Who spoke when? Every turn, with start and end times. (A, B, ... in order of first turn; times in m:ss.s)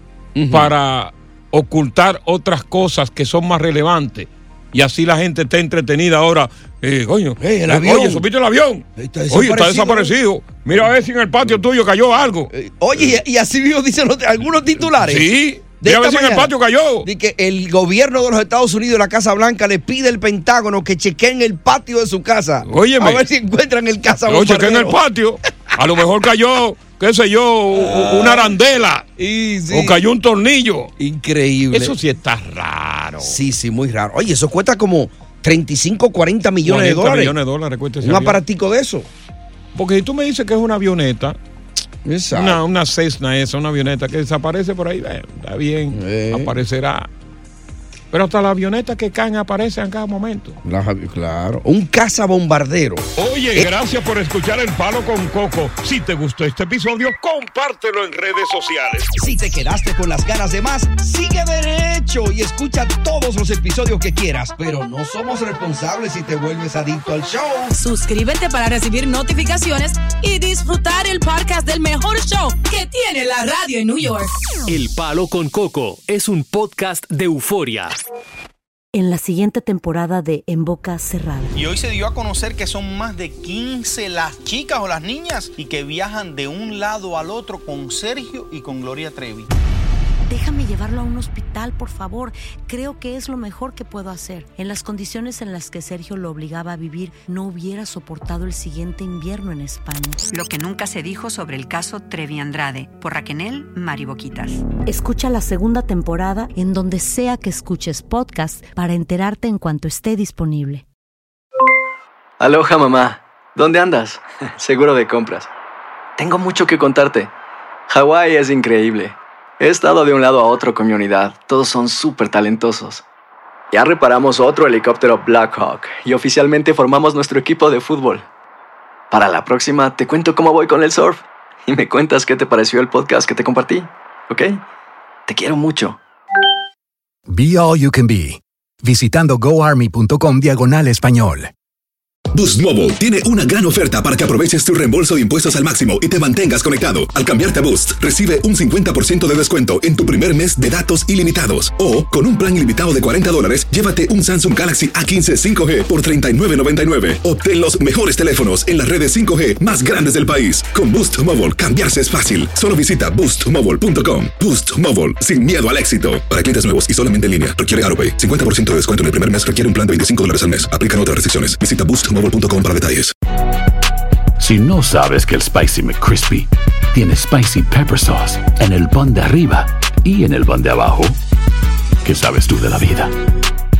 0:00.3-0:00.7 A
0:00.5-0:12.5 B
0:07.4-0:08.2 A
0:09.0-0:10.2 A
0:12.5-0:25.0 A
0:15.0-0:17.1 B
0:22.6-0:23.2 B
0:24.2-0:29.1 B
0:27.7-0:28.5 A
0:29.2-0:30.0 A
0:29.7-0:30.9 B
0:31.0-0:32.0 A
0:31.7-0:33.4 B
0:33.2-0:37.4 A
0:36.6-0:38.4 B
0:38.0-0:39.1 A
0:39.7-0:41.4 B
0:42.0-0:42.6 A
0:42.3-0:47.1 B
0:45.9-0:46.5 A
0:48.1-0:50.6 B
0:50.6-0:53.7 A
0:53.2-0:59.1 B
0:59.2-1:07.7 A
1:07.7-1:14.3 C
1:14.7-1:17.9 D
1:18.9-1:21.6 E
1:21.5-1:29.5 F
1:30.3-1:40.2 E
1:40.3-1:44.7 G
1:44.8-1:50.8 E
1:52.4-1:55.5 H
1:56.2-1:57.3 H
1:57.9-2:03.0 H
2:03.7-2:08.2 H
2:09.1-2:14.6 H
2:15.3-2:16.0 H
2:17.3-2:21.5 I
2:22.3-2:53.1 J
2:54.4-3:01.2 K
3:02.0-3:03.1 K